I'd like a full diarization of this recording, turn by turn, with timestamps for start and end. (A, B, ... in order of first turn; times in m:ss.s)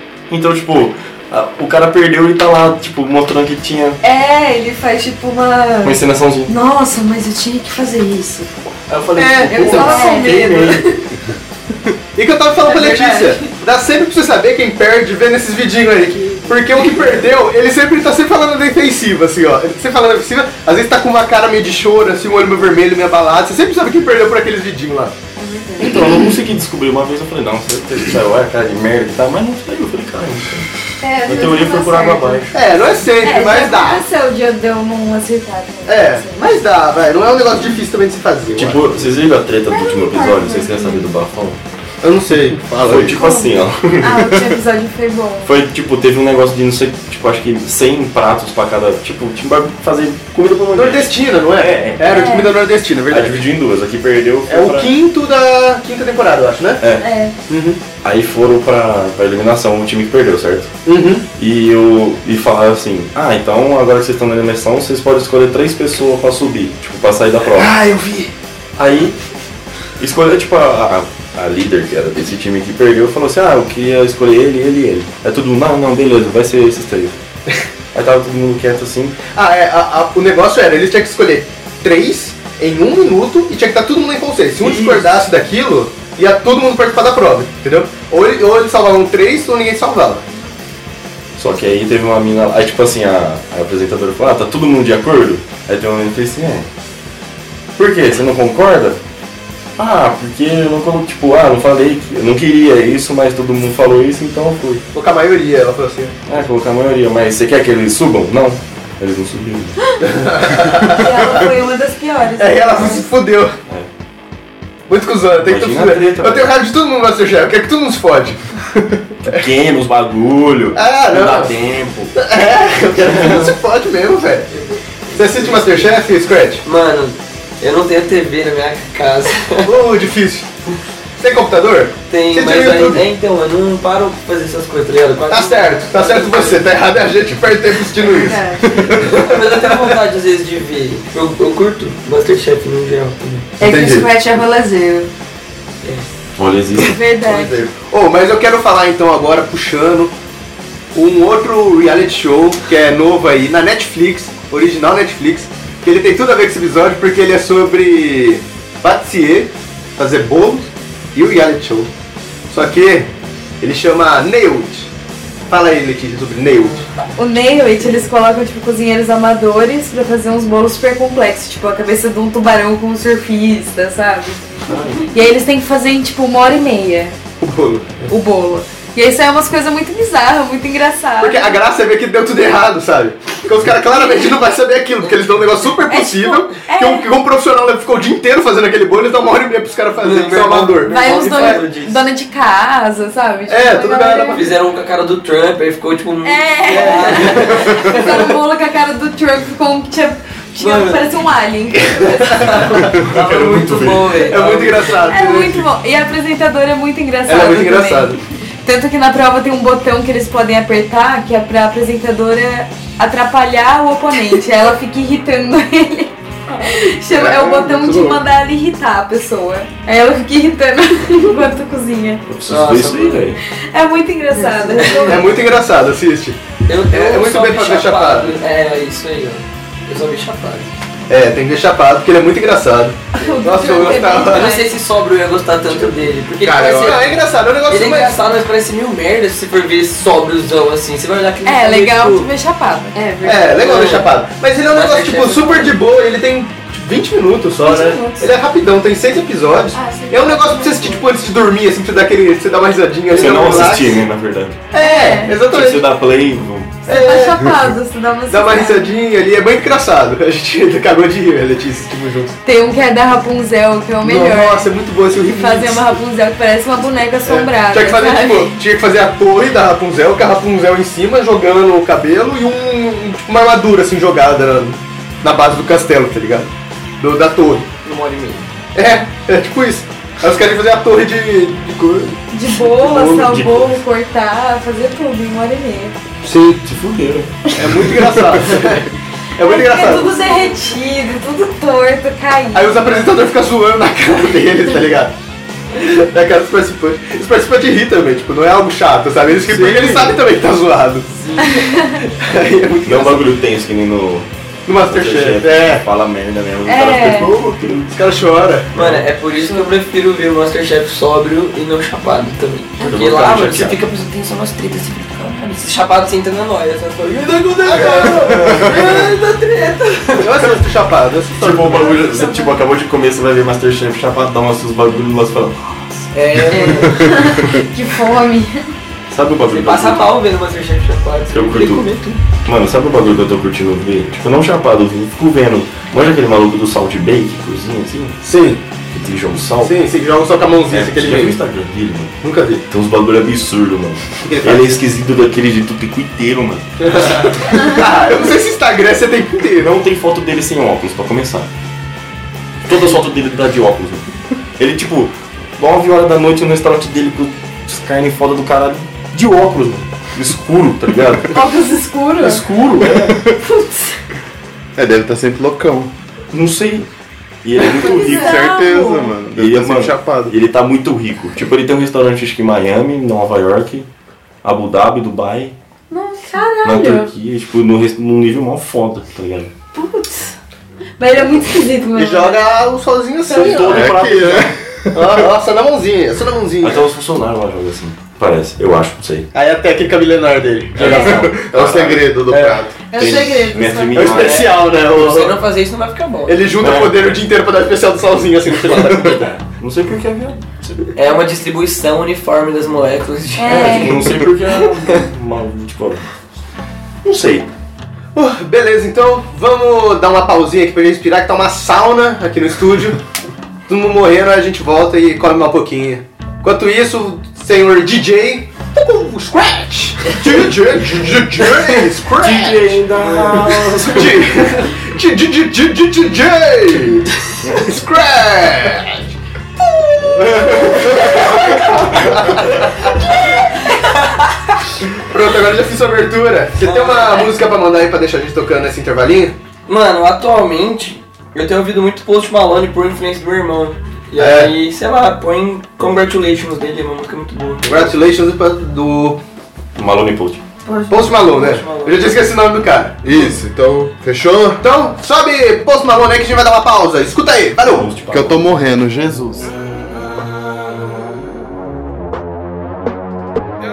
0:00.3-0:04.0 A
0:04.0-0:08.5 B
0:05.8-0:06.5 A
0:08.9-0:10.8 A
0:09.2-0:11.0 B
0:09.7-0:10.5 C
0:12.2-0:25.1 D
0:12.6-0:13.4 B
0:25.4-0:26.1 B
0:25.8-0:30.7 A
0:31.0-0:32.5 B
0:31.2-0:32.7 A
0:32.5-0:34.0 D
0:33.2-0:36.6 C
0:35.8-0:39.0 D
0:38.6-0:41.6 A
0:39.7-0:41.0 B
0:42.0-0:43.1 D
0:42.8-0:44.5 A
0:43.2-0:43.4 B
0:44.0-0:45.5 C
0:45.4-0:52.4 A
0:50.7-0:53.5 D
0:52.0-0:52.5 C
0:53.1-0:54.9 A
0:54.5-0:56.8 D
0:56.8-0:57.1 A
0:56.9-0:57.3 C
0:57.5-0:57.8 D
0:58.0-1:00.7 A
1:00.8-1:01.3 D
1:01.4-1:09.1 A
1:10.0-1:17.1 A
1:17.9-1:19.2 A
1:19.3-1:30.2 D
1:24.6-1:25.1 A
1:31.4-1:36.7 A
1:37.8-1:39.0 A
1:39.8-1:44.8 A
1:44.9-1:46.1 D
1:46.3-1:49.7 A
1:50.0-1:51.4 D
1:50.9-1:53.1 C
1:52.4-1:53.5 D
1:54.9-1:58.4 D
1:55.4-1:56.6 A
1:59.2-2:02.2 A
2:00.7-2:01.6 D
2:02.1-2:04.5 D
2:03.0-2:03.5 A
2:04.5-2:05.9 E
2:05.1-2:06.6 D
2:06.6-2:09.7 E
2:09.6-2:10.5 D
2:11.2-2:13.0 D
2:12.1-2:16.7 E
2:15.3-2:18.4 D
2:18.1-2:18.8 B
2:18.6-2:19.1 F
2:19.0-2:23.5 E
2:23.6-2:25.1 B
2:23.6-2:24.1 D
2:25.8-2:26.1 E
2:26.4-2:27.0 A
2:26.8-2:27.6 C
2:27.6-2:30.1 D
2:30.9-2:41.9 D
2:42.5-2:44.9 D
2:45.5-2:46.8 D
2:47.2-2:57.2 C
2:54.7-2:55.1 A
2:57.4-2:58.1 D
2:58.1-3:01.6 C
3:01.2-3:11.7 D
3:05.8-3:07.1 C
3:10.0-3:12.0 E
3:10.8-3:14.5 C
3:13.5-3:14.4 D
3:14.3-3:18.3 E
3:16.2-3:22.6 C
3:16.7-3:18.1 D
3:20.6-3:21.1 E
3:22.2-3:25.1 E
3:22.5-3:22.9 D
3:22.9-3:24.2 A
3:24.2-3:25.7 D
3:25.1-3:42.2 C
3:27.2-3:28.2 D
3:37.1-3:38.2 D
3:42.3-3:43.4 A
3:42.5-3:43.4 E
3:43.7-3:45.4 C
3:44.3-3:45.2 B
3:45.1-3:48.3 D
3:46.7-3:50.7 E
3:51.1-3:54.5 D
3:53.1-3:54.7 C
3:53.9-4:02.3 E
3:56.4-3:58.2 D
4:01.4-4:03.0 C
4:02.9-4:03.6 B
4:03.2-4:14.0 D
4:03.6-4:04.1 E
4:04.7-4:05.8 E
4:07.6-4:08.2 C
4:09.7-4:11.0 B
4:13.1-4:14.7 A
4:14.7-4:15.8 D
4:14.8-4:15.4 C
4:15.4-4:16.9 A
4:16.8-4:19.0 C
4:16.9-4:17.5 D
4:18.3-4:22.3 D
4:22.4-4:24.7 C
4:24.0-4:26.0 D
4:25.2-4:28.6 C
4:27.2-4:37.7 D
4:37.8-4:38.5 E
4:38.7-4:42.2 D
4:42.3-4:46.0 C
4:42.7-4:43.7 A
4:46.3-4:48.6 A
4:47.5-4:50.2 D
4:49.4-4:53.1 C
4:52.5-4:55.1 D
4:55.7-5:01.1 D
4:59.3-5:00.3 A
5:01.1-5:01.7 E
5:01.4-5:02.0 C
5:02.1-5:03.3 D
5:02.8-5:04.3 A
5:04.6-5:05.8 D
5:04.8-5:07.9 A
5:06.6-5:07.3 C
5:07.9-5:08.7 D
5:08.7-5:09.1 A
5:08.7-5:20.4 E
5:12.8-5:13.8 A
5:15.0-5:15.4 B
5:17.6-5:18.3 D
5:18.2-5:18.7 A
5:20.2-5:22.1 D
5:21.4-5:26.6 A
5:21.8-5:22.6 C
5:26.1-5:27.1 E
5:26.5-5:28.7 C
5:29.1-5:30.1 A
5:29.5-5:32.2 E
5:31.3-5:38.2 A
5:38.2-5:38.6 D
5:38.9-5:39.8 A
5:39.6-5:41.4 D
5:40.7-5:42.1 A
5:42.2-5:42.6 D
5:42.7-5:47.7 A
5:44.2-5:44.6 D
5:46.8-5:49.7 D
5:49.6-5:51.5 A
5:52.6-5:54.0 A
5:54.6-6:01.5 A
6:01.3-6:02.4 C
6:02.2-6:03.2 A
6:02.8-6:03.2 F
6:04.8-6:05.9 F
6:06.3-6:06.9 A
6:07.4-6:08.4 A
6:07.7-6:09.2 C
6:07.8-6:10.4 F
6:09.3-6:13.9 A
6:14.4-6:15.5 A
6:15.9-6:16.6 B
6:16.3-6:17.1 C
6:16.6-6:19.5 A
6:21.0-6:22.5 C
6:21.9-6:24.0 D
6:23.3-6:24.6 A
6:23.6-6:25.2 F
6:24.9-6:26.9 D
6:26.6-6:29.3 A
6:29.3-6:31.2 D
6:30.7-6:32.4 A
6:30.9-6:32.8 F
6:32.3-6:32.6 D
6:32.9-6:34.3 C
6:32.9-6:34.6 A
6:33.9-6:35.4 D
6:34.2-6:36.4 E
6:36.2-6:39.3 D
6:36.6-6:37.0 A
6:38.5-6:40.9 A
6:40.9-6:44.1 E
6:43.4-6:44.2 C
6:43.5-6:46.0 A
6:47.0-6:47.5 A
6:48.1-6:53.0 D
6:53.7-7:09.1 D
7:01.4-7:04.5 A
7:10.1-7:12.9 D
7:15.0-7:19.4 D
7:16.6-7:17.3 E
7:19.7-7:28.0 E
7:24.2-7:24.5 D
7:27.6-7:29.2 D
7:29.8-7:30.4 A
7:30.6-7:31.3 B
7:30.9-7:33.0 D
7:31.2-7:32.1 E
7:33.0-7:34.6 F
7:34.6-7:37.9 D
7:37.6-7:38.5 A
7:38.1-7:39.5 F